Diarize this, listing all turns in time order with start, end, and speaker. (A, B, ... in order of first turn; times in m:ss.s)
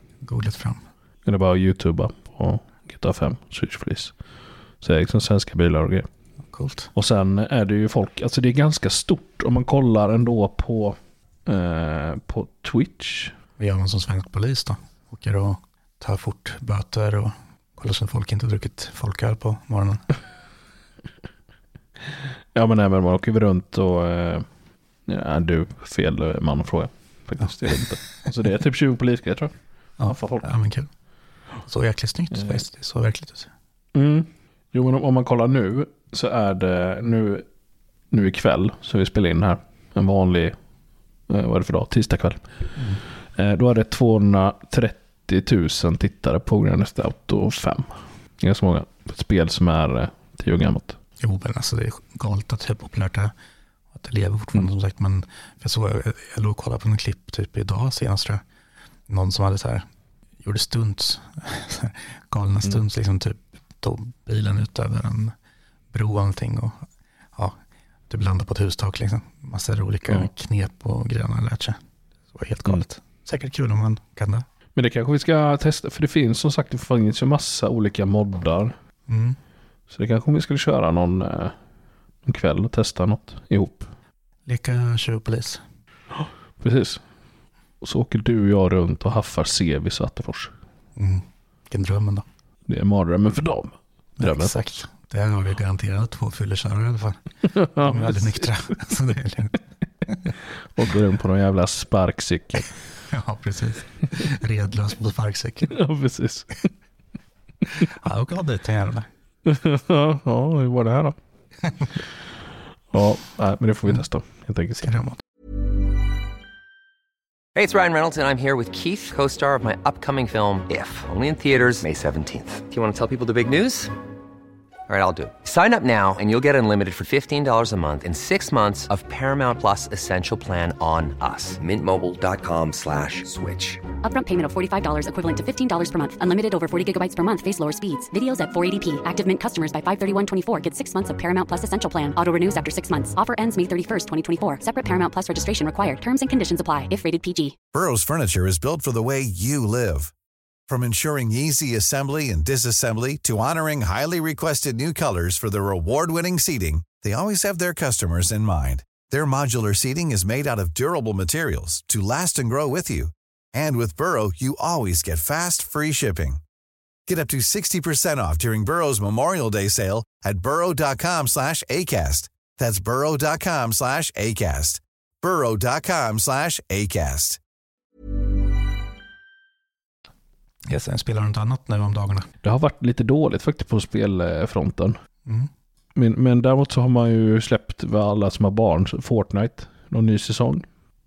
0:00.2-0:00.8 A
0:01.2-0:04.1 B
0:04.8-0:06.1 B
0:06.5-0:06.9 A
0:07.0-0:13.4 B
0:13.6-0:20.0 A
0:22.6-0:24.4 B
0:25.1-0:29.5 B
0:30.0-0:30.9 A
0:30.0-0:30.5 B
0:31.6-0:33.5 A
0:32.4-0:32.6 B
0:34.0-0:37.4 B
0:38.1-0:40.6 B
0:41.3-0:42.4 B
0:43.4-0:51.0 B
0:51.2-0:53.3 A
0:53.9-0:58.4 A
0:59.1-0:59.9 A
1:00.4-1:05.3 A
1:05.9-1:06.8 A
1:08.1-1:11.8 A
1:12.3-1:14.5 A
1:14.8-1:18.7 B
1:19.1-1:19.4 A
1:19.9-1:21.5 B
1:22.2-1:23.9 B
1:24.5-1:25.6 A
1:26.2-1:27.0 B
1:27.8-1:30.5 B
1:31.0-1:32.3 A
1:32.7-1:34.6 B
1:34.2-1:37.2 A
1:37.5-1:38.6 B
1:37.8-1:40.3 A
1:40.8-1:42.8 B
1:43.1-1:45.8 A
1:45.7-1:46.7 B
1:47.8-1:49.1 A
1:49.4-1:51.2 B
1:52.9-1:54.9 B
1:54.8-1:55.2 A
1:57.6-2:03.9 C
2:04.9-2:13.8 C
2:14.0-2:27.6 D
2:27.7-2:30.1 E
2:30.7-2:46.4 E
2:47.1-2:57.4 E
3:00.7-3:02.3 A
3:02.4-3:05.0 B
3:06.0-3:10.6 B